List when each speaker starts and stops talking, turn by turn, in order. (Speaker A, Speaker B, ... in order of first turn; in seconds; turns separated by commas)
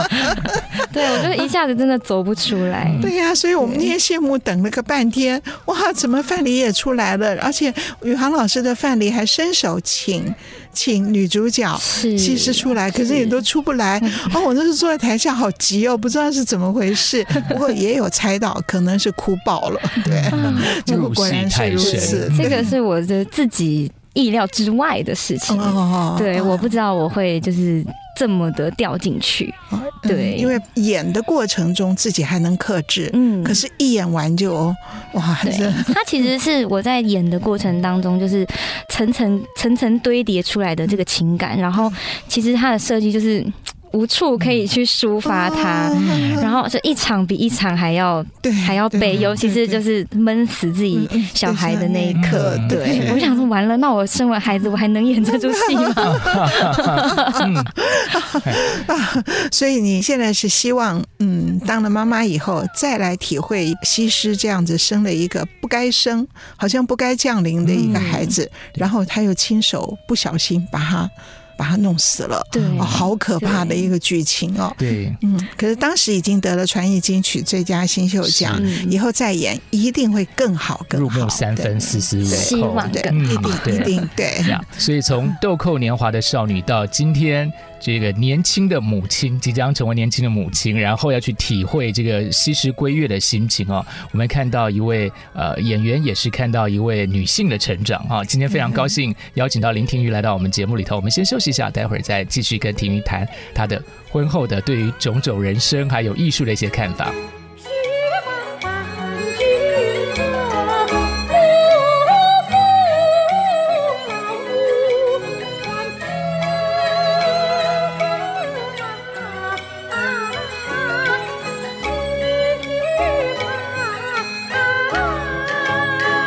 Speaker A: 0.2-3.9, Speaker B: 2.9-3.1, Speaker C: 3.0-22.7, Speaker A: 11.8-13.4, Speaker A: 14.0-14.3, Speaker B: 20.0-22.7, Speaker A: 20.3-20.8, Speaker A: 21.8-30.5, Speaker C: 25.5-26.7, Speaker C: 29.7-36.0, Speaker A: 33.1-33.6, Speaker A: 35.4-57.4, Speaker C: 45.2-46.5, Speaker B: 45.9-46.5, Speaker C: 48.4-49.8, Speaker B: 49.0-49.4, Speaker C: 50.9-53.4, Speaker B: 52.1-53.2, Speaker C: 55.2-84.6, Speaker B: 56.1-57.7, Speaker B: 67.6-68.1, Speaker A: 67.8-68.3, Speaker A: 72.5-73.9, Speaker B: 72.6-73.0, Speaker B: 74.8-75.2, Speaker B: 78.2-78.6, Speaker A: 78.5-79.0, Speaker B: 80.9-107.2, Speaker A: 81.8-83.9